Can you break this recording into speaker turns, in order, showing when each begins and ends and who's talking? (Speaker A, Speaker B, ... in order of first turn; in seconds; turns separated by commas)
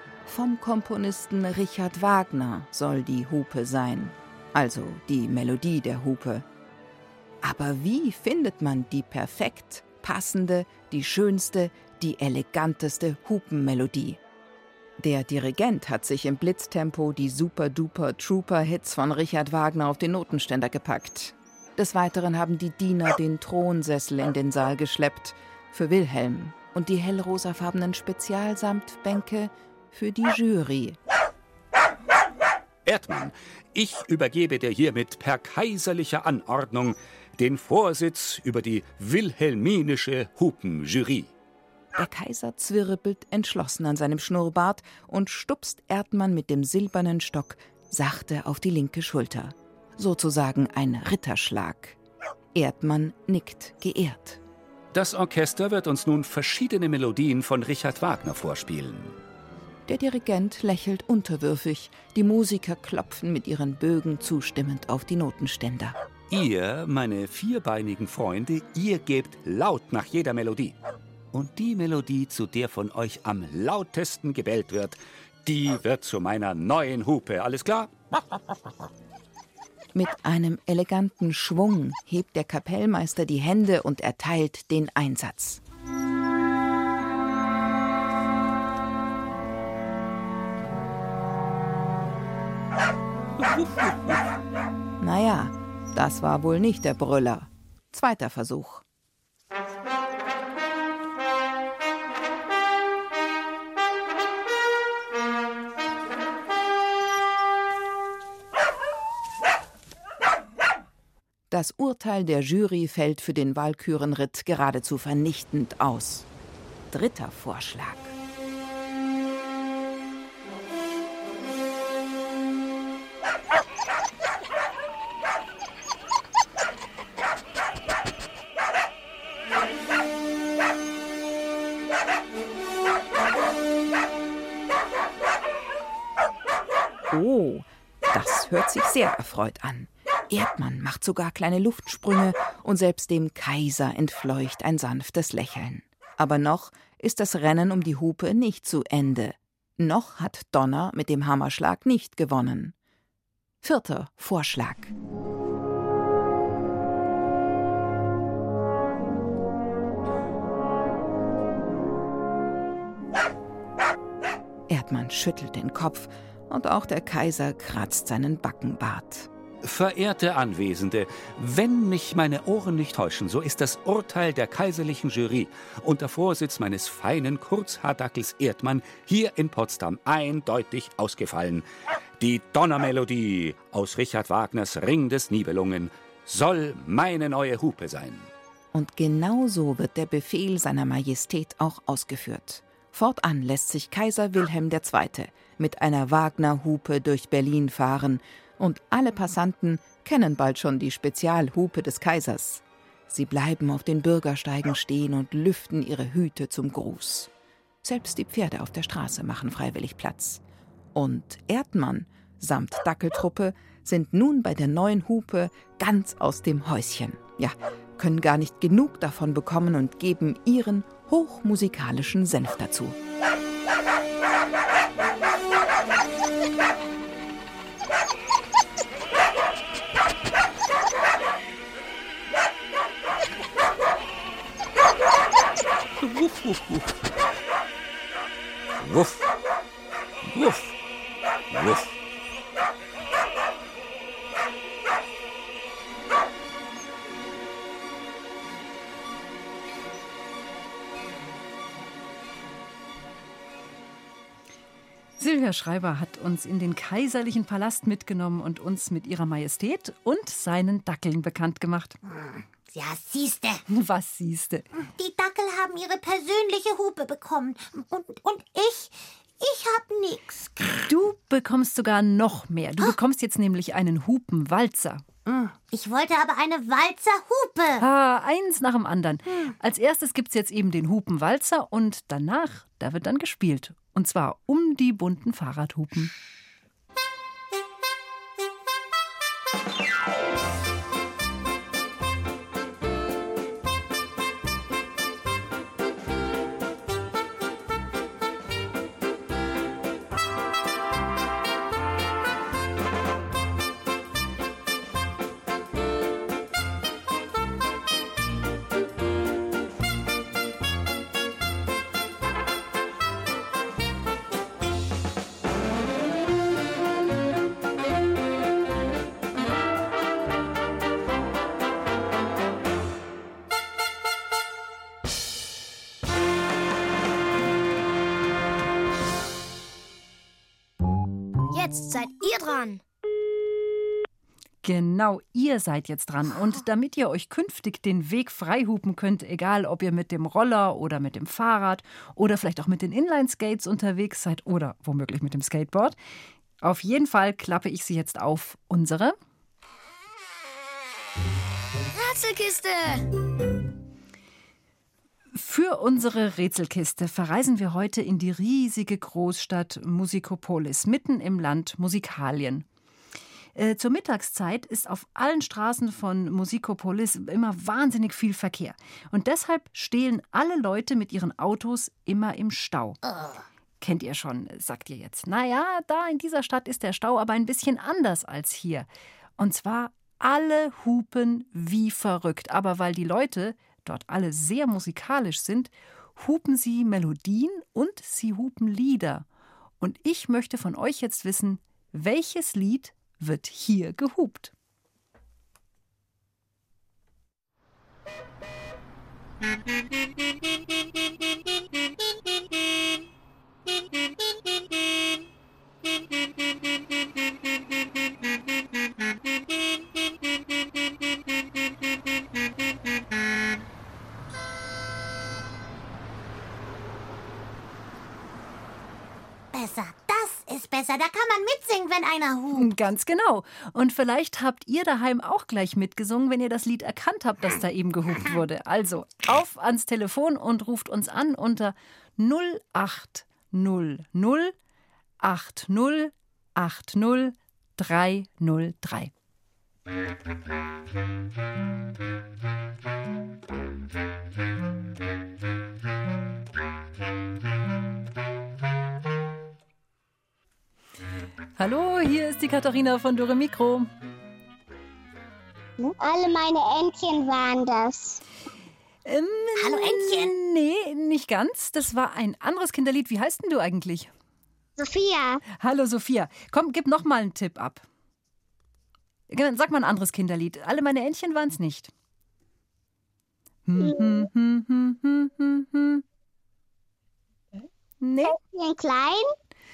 Speaker A: 0.2-6.5, Speaker A: 7.4-14.2, Speaker A: 15.0-31.0, Speaker B: 32.9-41.3, Speaker A: 41.9-52.0, Speaker A: 52.5-54.4, Speaker B: 54.9-59.2, Speaker A: 59.9-66.0, Speaker B: 66.3-70.8, Speaker B: 71.3-77.9, Speaker A: 79.9-85.6, Speaker A: 95.0-98.8, Speaker A: 111.5-116.2, Speaker A: 116.9-118.1, Speaker A: 137.1-152.8, Speaker A: 153.6-154.9, Speaker A: 164.7-169.3, Speaker B: 169.6-181.6, Speaker B: 182.2-188.3, Speaker A: 188.7-207.3, Speaker A: 207.8-210.4, Speaker A: 210.9-223.0, Speaker B: 236.0-236.9, Speaker B: 238.8-239.2, Speaker B: 240.2-240.7, Speaker B: 241.5-241.9, Speaker C: 255.2-262.0, Speaker D: 262.1-263.6, Speaker C: 263.7-264.7, Speaker D: 264.8-270.9, Speaker C: 270.9-275.0, Speaker D: 275.2-277.8, Speaker C: 277.8-286.1, Speaker D: 279.3-279.5, Speaker E: 331.5-332.8, Speaker C: 334.6-345.9, Speaker C: 346.6-349.1, Speaker E: 351.9-353.1, Speaker C: 355.3-362.6, Speaker C: 363.6-373.0, Speaker D: 373.0-373.4, Speaker C: 373.8-378.9, Speaker C: 379.4-389.2, Speaker C: 389.8-394.5, Speaker D: 419.5-422.7, Speaker C: 422.5-434.5, Speaker C: 435.2-439.1, Speaker C: 451.6-453.9, Speaker F: 455.8-458.2, Speaker C: 459.1-464.1, Speaker D: 459.6-460.3, Speaker F: 464.8-465.4, Speaker C: 465.6-467.9, Speaker C: 469.3-471.9, Speaker C: 473.6-476.0, Speaker F: 473.8-474.2, Speaker C: 478.0-478.4, Speaker F: 478.2-479.3